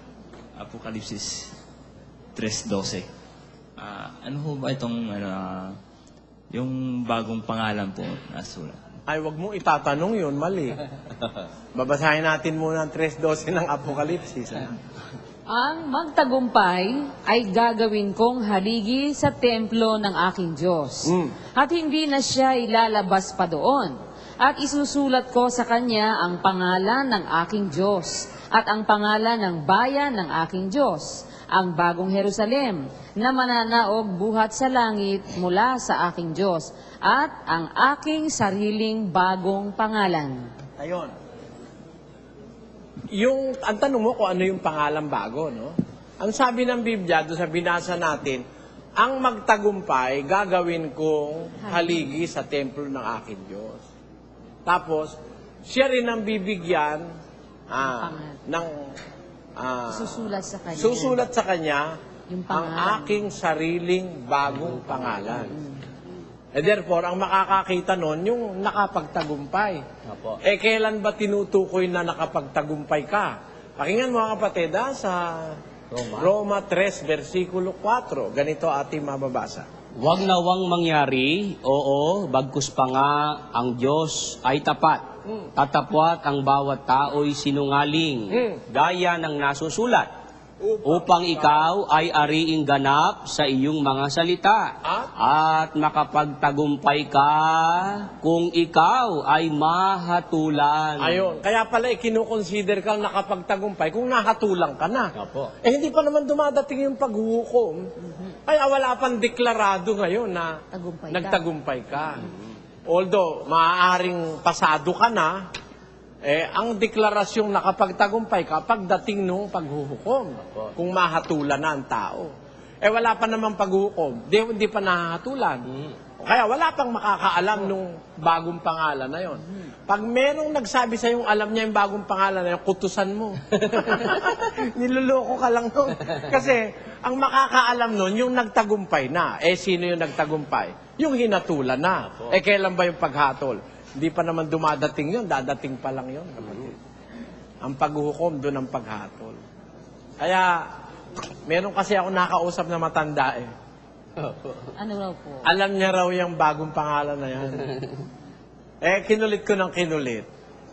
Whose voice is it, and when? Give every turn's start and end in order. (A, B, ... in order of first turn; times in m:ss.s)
0:00.6-0:01.5 A
0:02.3-0:03.1 A
0:03.8-0:05.8 A
0:06.5-0:08.8 A
0:09.1-0:10.8 B
0:11.7-0:14.7 B
0:15.5-0:40.4 C
0:21.0-0:21.3 B
0:40.8-0:41.1 B
0:43.2-0:48.4 B
0:49.0-0:53.8 B
0:51.6-0:52.0 C
0:54.6-0:55.1 B
0:55.6-0:57.1 B
0:57.7-0:58.8 B
0:57.8-0:58.4 C
0:59.6-1:01.9 B
0:59.9-1:01.2 C
1:02.3-1:03.2 C
1:02.5-1:05.5 B
1:04.5-1:05.5 D
1:05.4-1:05.8 C
1:06.5-1:09.8 B
1:10.0-1:10.4 D
1:10.4-1:15.6 B
1:15.9-1:16.3 D
1:16.1-1:19.6 B
1:20.0-1:25.0 D
1:25.6-1:30.1 D
1:28.3-1:28.6 B
1:30.6-1:31.7 B
1:30.8-1:41.2 D
1:34.8-1:35.1 B
1:41.0-1:45.1 B
1:45.2-1:45.5 D
1:45.6-1:47.8 B
1:48.0-1:48.4 C
1:48.5-1:50.5 B
1:50.7-1:51.4 C
1:51.1-1:52.2 B
1:52.9-1:55.3 B
1:56.2-2:02.3 B
2:02.8-2:05.6 B
2:06.2-2:26.8 B
2:27.6-2:29.4 B
2:30.2-2:30.6 B
2:31.4-2:33.5 B
2:34.2-2:34.5 D
2:34.8-2:35.5 C
2:35.4-2:37.7 B
2:38.8-2:40.3 B